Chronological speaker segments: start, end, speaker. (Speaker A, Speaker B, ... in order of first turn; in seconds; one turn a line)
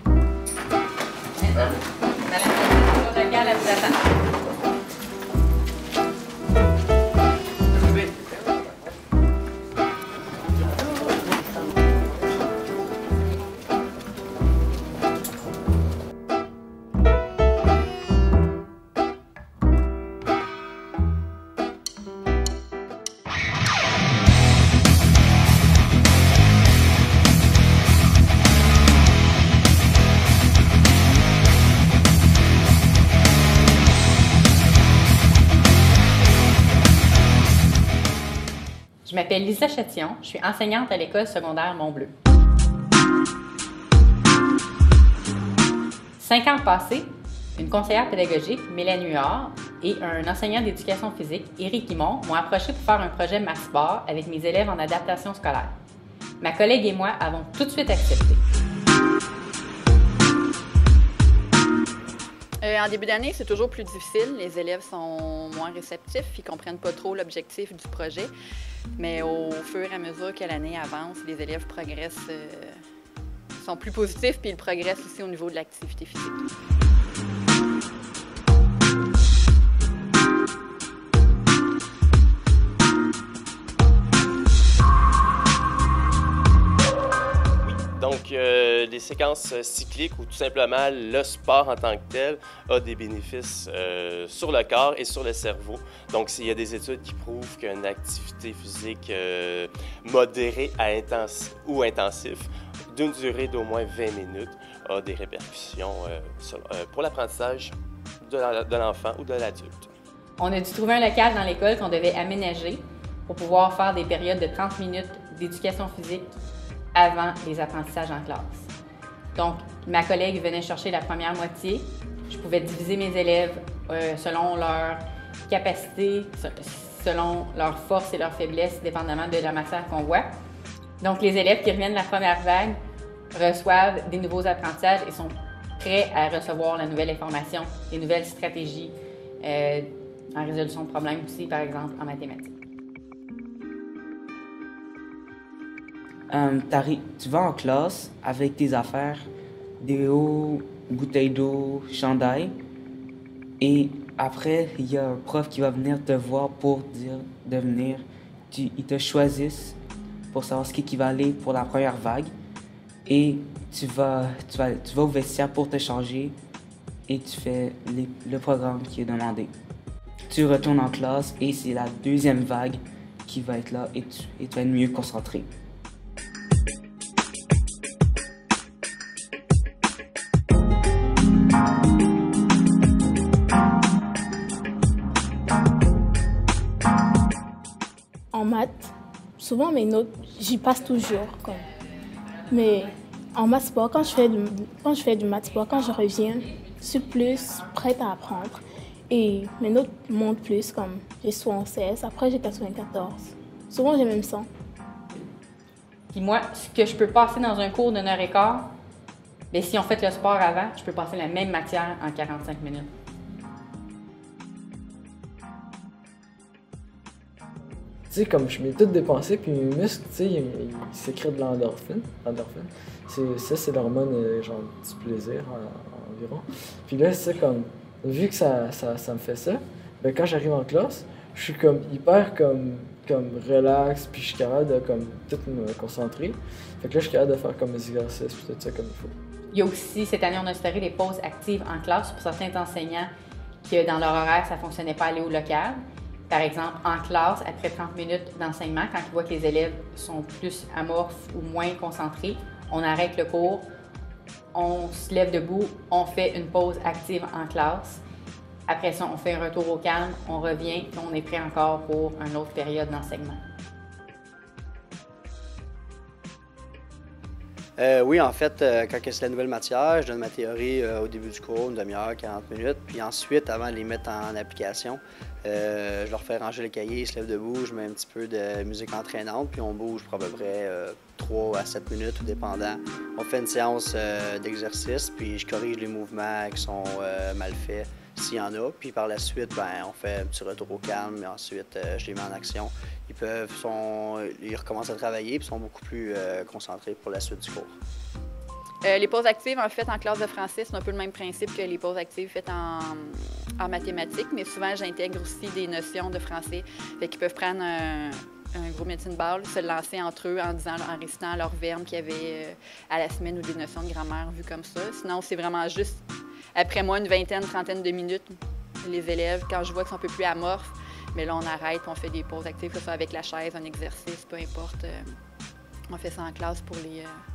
Speaker A: 1.4-4.0
Speaker A: 39.0-42.1
Speaker A: 46.2-55.7
Speaker A: 56.4-58.4
Speaker B: 62.6-68.3
Speaker B: 69.0-72.8
Speaker B: 73.6-76.4
Speaker C: 87.6-109.9
Speaker A: 110.4-116.3
Speaker A: 116.9-118.7
Speaker A: 119.3-130.2
Speaker A: 131.0-132.8
Speaker A: 133.3-142.5
Speaker D: 146.3-149.3
Speaker D: 149.8-152.5
Speaker D: 153.6-159.8
Speaker D: 160.3-162.3
Speaker D: 163.1-166.3
Speaker D: 167.1-169.5
Speaker D: 170.3-175.5
Speaker E: 188.3-191.6
Speaker A: 190.7-191.6
Speaker A: 192.2-192.9
Speaker E: 192.5-204.5
Speaker A: 195.3-198.5
Speaker A: 206.1-208.7
Speaker A: 209.5-212.9
Speaker F: 218.1-239.1
Speaker A: 239.5-243.1
Speaker A: 243.6-253.6
Speaker A: 254.5-258.0
Speaker A: 258.7-263.4
Speaker G: 267.8-297.7
Speaker B: 298.8-316.0
Speaker B: 316.5-325.0
Speaker B: 325.9-327.1